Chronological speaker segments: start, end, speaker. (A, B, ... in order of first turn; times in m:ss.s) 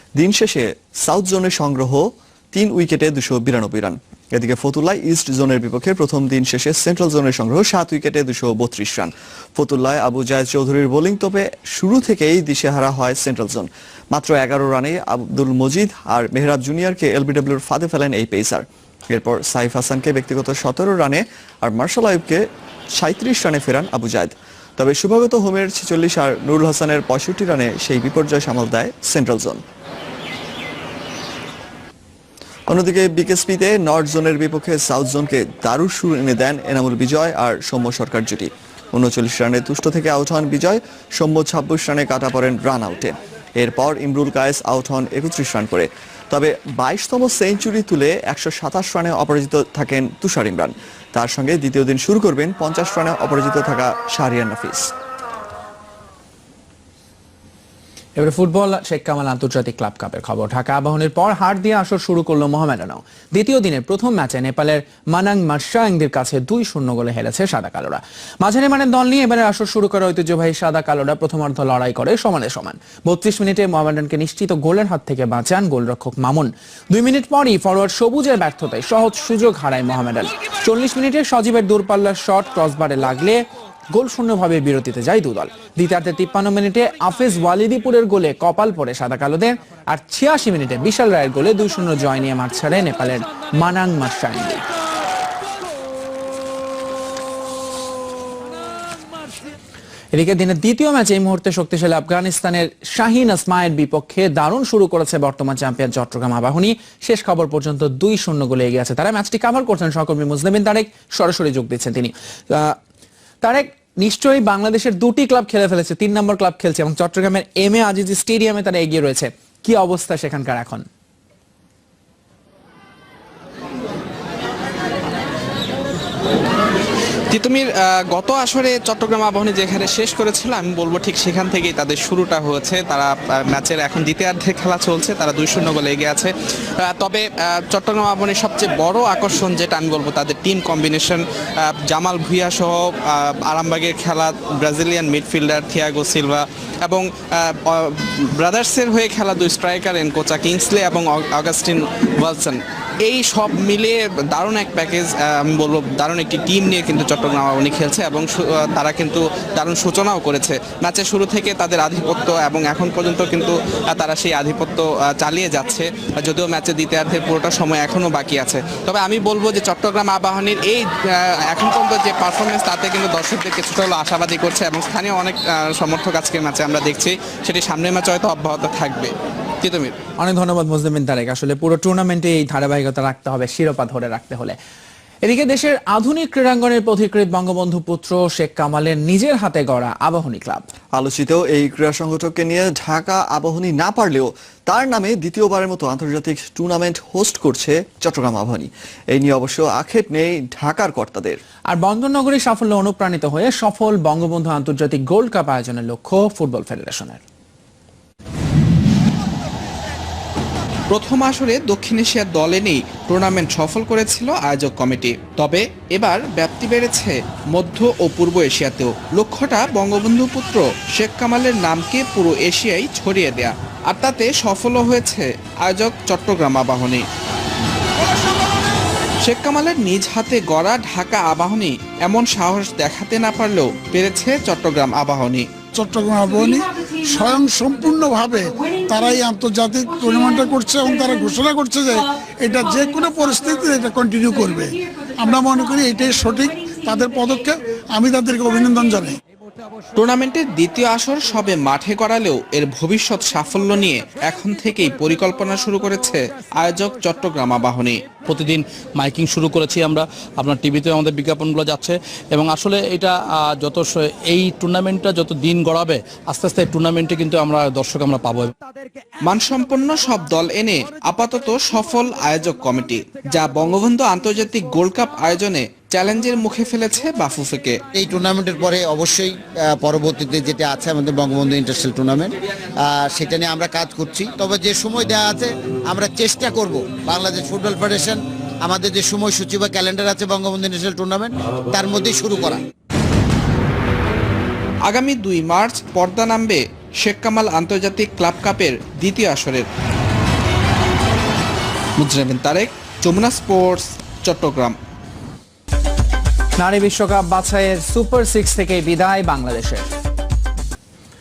0:00.2-0:29.6 A
0:32.7-0:54.9 A
0:58.2-1:23.4 B
1:23.9-1:34.6 B
1:40.1-1:52.8 B
1:53.4-2:00.8 B
2:07.3-2:59.1 C
2:59.6-3:00.0 C
3:00.2-3:04.6 B
3:05.2-3:10.6 B
3:10.9-3:21.4 A
3:21.7-3:27.2 B
3:30.9-3:47.0 C
3:49.2-3:55.5 C
3:55.7-4:09.2 D
4:10.0-4:18.0 C
4:18.3-4:28.5 E
4:29.2-4:37.8 C
4:37.9-4:52.6 F
4:54.9-4:59.7 C
5:02.0-5:04.8 C
5:06.6-5:09.9 B